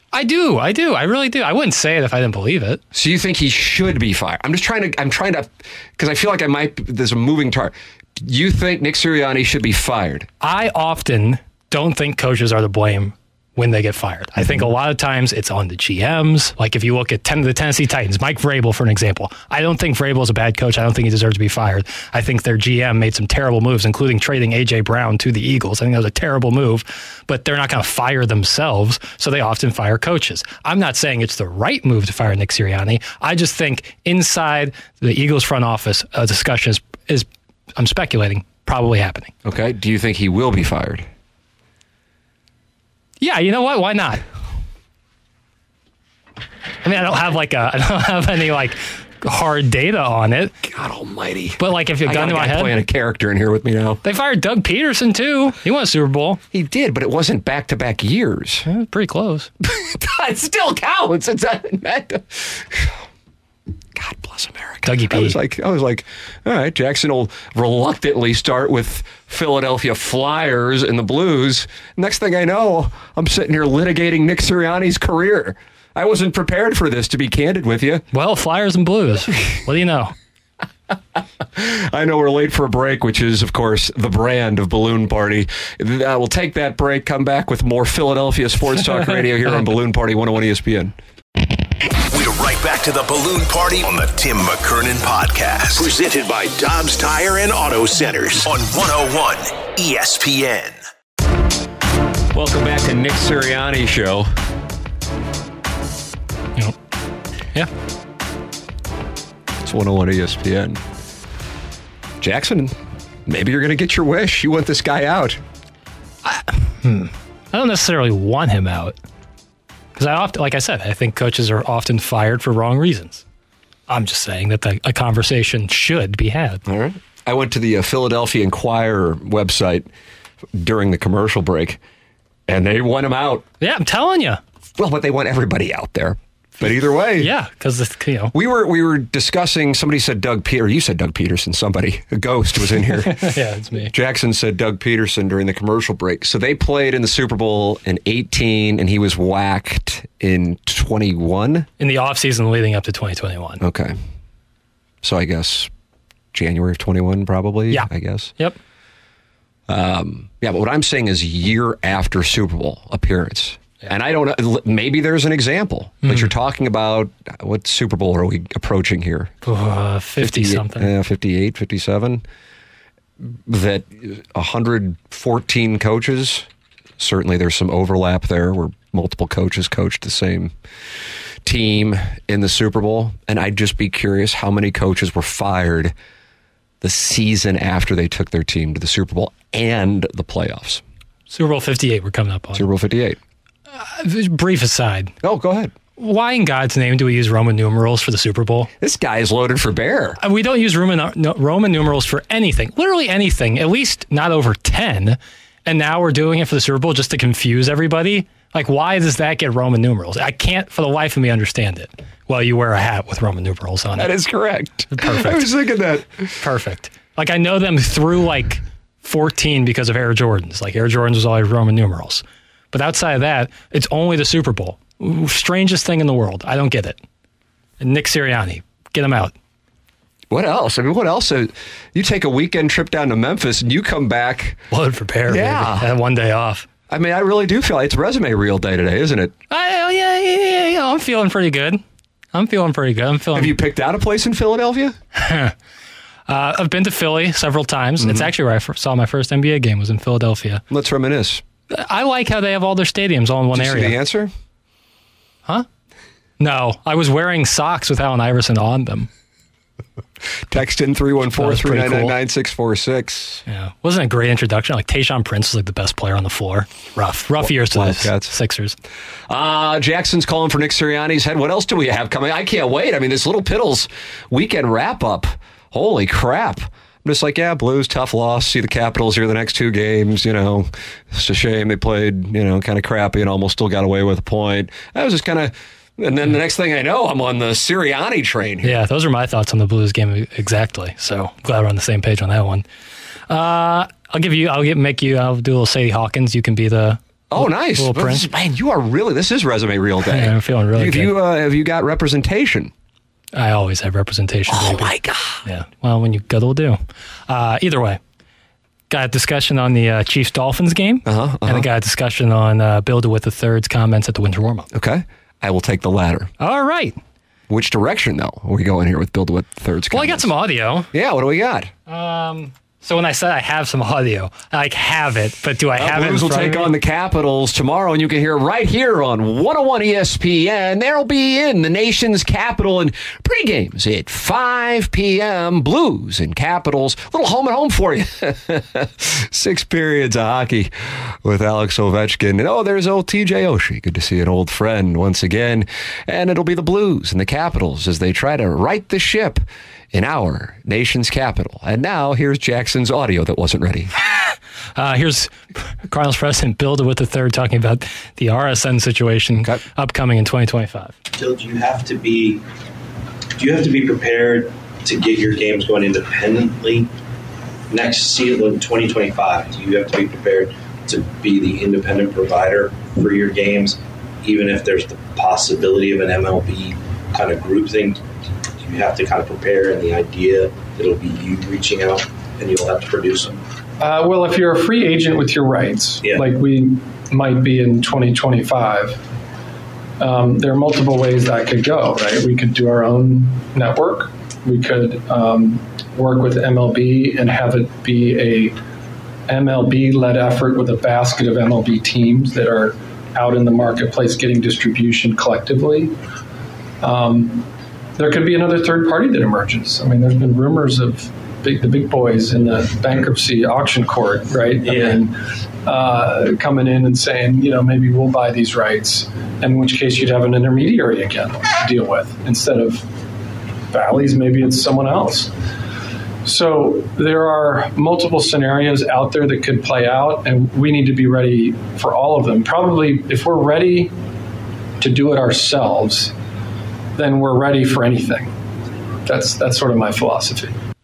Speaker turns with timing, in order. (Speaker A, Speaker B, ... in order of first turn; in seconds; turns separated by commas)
Speaker A: 0.1-2.8, Speaker B: 2.9-10.3, Speaker A: 10.4-39.3, Speaker B: 39.4-41.1, Speaker A: 43.2-44.2, Speaker A: 46.8-50.5, Speaker B: 50.6-54.0, Speaker A: 51.6-52.8, Speaker A: 54.0-56.4, Speaker B: 56.5-58.7, Speaker A: 58.7-59.5, Speaker B: 59.6-63.0, Speaker B: 64.0-78.0, Speaker A: 64.8-65.4, Speaker A: 78.1-80.1, Speaker B: 81.5-91.0, Speaker C: 92.1-100.8, Speaker B: 102.3-104.3, Speaker B: 109.6-110.8, Speaker B: 112.2-112.7, Speaker B: 113.3-115.4, Speaker A: 116.2-119.0, Speaker A: 120.0-123.2, Speaker A: 123.9-126.6, Speaker B: 126.7-129.9, Speaker B: 130.5-131.8, Speaker B: 132.5-133.4, Speaker A: 133.6-134.4, Speaker B: 134.8-137.3, Speaker A: 137.2-138.3, Speaker B: 138.3-143.3, Speaker A: 142.9-143.9, Speaker B: 143.9-151.7, Speaker A: 151.8-153.6, Speaker B: 153.6-153.9, Speaker B: 155.0-155.7, Speaker B: 156.3-158.3, Speaker A: 157.7-158.6, Speaker B: 159.7-169.3, Speaker A: 166.0-166.3, Speaker A: 169.4-170.9, Speaker B: 170.2-172.2, Speaker B: 173.2-176.5, Speaker B: 177.0-180.5, Speaker B: 181.4-185.9, Speaker B: 186.8-190.8, Speaker A: 191.3-192.7, Speaker B: 192.5-193.2, Speaker A: 193.7-195.1, Speaker B: 195.2-195.7, Speaker A: 196.0-198.7, Speaker B: 198.8-200.2, Speaker A: 200.2-214.1, Speaker B: 214.0-216.3, Speaker A: 214.9-215.5, Speaker A: 216.4-227.0, Speaker A: 227.8-229.3, Speaker B: 230.3-234.6, Speaker A: 234.7-236.7, Speaker B: 235.3-235.9, Speaker B: 236.9-239.3, Speaker A: 239.5-241.8, Speaker A: 242.3-243.6, Speaker B: 243.3-245.0, Speaker A: 245.2-245.5, Speaker A: 246.3-250.6, Speaker B: 248.0-248.3, Speaker B: 250.7-251.4, Speaker A: 251.7-254.0, Speaker B: 253.5-254.3, Speaker A: 256.4-259.1, Speaker B: 260.5-263.4, Speaker A: 261.4-262.1, Speaker A: 263.5-268.8, Speaker B: 267.4-268.3, Speaker B: 269.3-288.8, Speaker A: 288.6-292.7, Speaker A: 293.3-298.3, Speaker B: 297.3-302.7, Speaker A: 300.1-301.1, Speaker A: 303.3-304.9, Speaker B: 304.5-305.4, Speaker A: 305.4-308.0, Speaker A: 308.9-314.7, Speaker B: 311.1-311.7, Speaker B: 314.7-316.3, Speaker A: 316.4-317.0, Speaker B: 317.5-320.3, Speaker A: 319.9-320.9, Speaker B: 320.9-321.7, Speaker A: 321.9-326.7, Speaker B: 325.8-353.9, Speaker A: 354.8-360.9, Speaker D: 361.1-362.4, Speaker D: 363.4-366.9, Speaker D: 367.7-378.0, Speaker D: 378.6-383.4, Speaker E: 383.8-389.1, Speaker E: 390.0-398.6, Speaker E: 399.3-405.9, Speaker E: 406.8-422.9, Speaker D: 414.7-415.0, Speaker E: 423.7-425.3, Speaker E: 426.2-433.9, Speaker E: 434.8-436.1, Speaker E: 437.0-438.3, Speaker E: 439.1-440.6